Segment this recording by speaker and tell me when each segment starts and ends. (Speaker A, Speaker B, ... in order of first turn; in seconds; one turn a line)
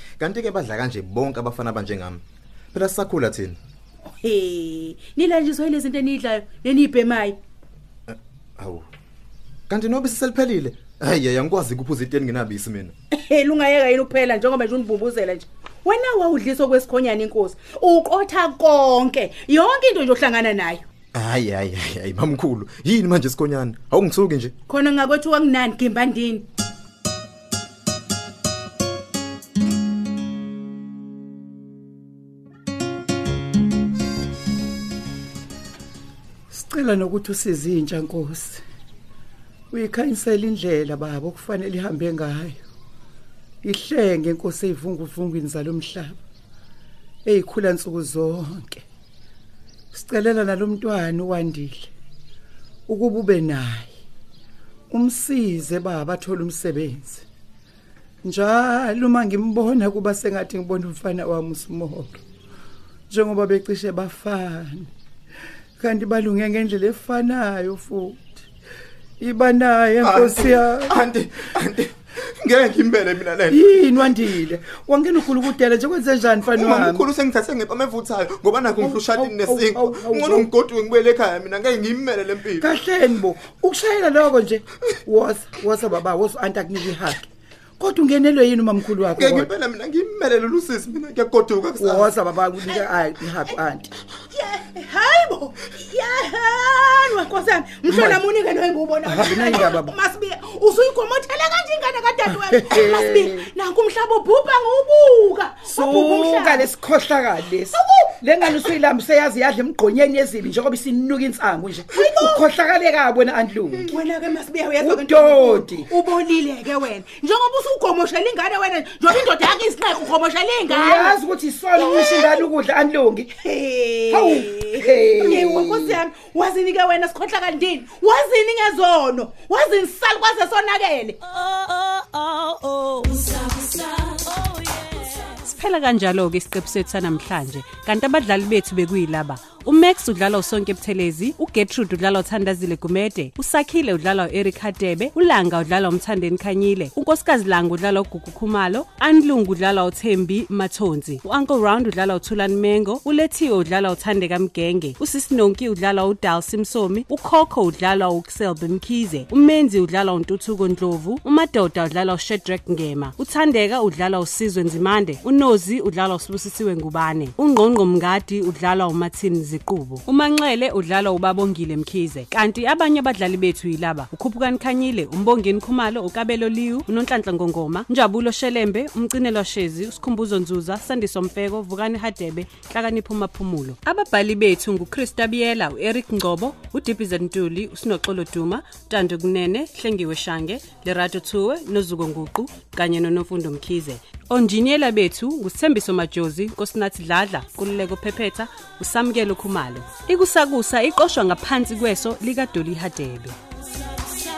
Speaker A: 0.2-2.2
Speaker A: 2.7-3.6
Speaker B: 4.1-7.4
Speaker A: 8.1-8.8
Speaker A: 9.7-12.9
Speaker B: 13.1-20.8
Speaker A: 21.1-24.5
Speaker B: 24.7-26.4
Speaker C: 36.5-38.6
Speaker C: 39.7-42.6
Speaker C: 43.6-46.2
Speaker C: 47.2-48.8
Speaker C: 49.9-51.9
Speaker C: 52.9-53.9
Speaker C: 54.9-57.2
Speaker C: 58.2-62.2
Speaker C: 63.1-64.9
Speaker C: 65.8-68.4
Speaker C: 69.2-71.0
Speaker A: 70.0-74.2
Speaker C: 73.5-77.0
Speaker A: 76.5-82.7
Speaker C: 78.8-80.5
Speaker C: 82.6-89.5
Speaker A: 89.0-92.1
Speaker C: 91.8-93.9
Speaker B: 94.3-106.7
Speaker C: 97.9-98.2
Speaker C: 99.0-99.9
Speaker C: 102.3-103.5
Speaker C: 105.6-113.9
Speaker B: 107.7-108.7
Speaker B: 111.9-112.4
Speaker B: 113.8-121.2
Speaker C: 114.8-115.9
Speaker C: 120.7-123.3
Speaker B: 121.7-122.4
Speaker B: 123.4-131.2
Speaker C: 124.1-126.0
Speaker D: 131.4-203.4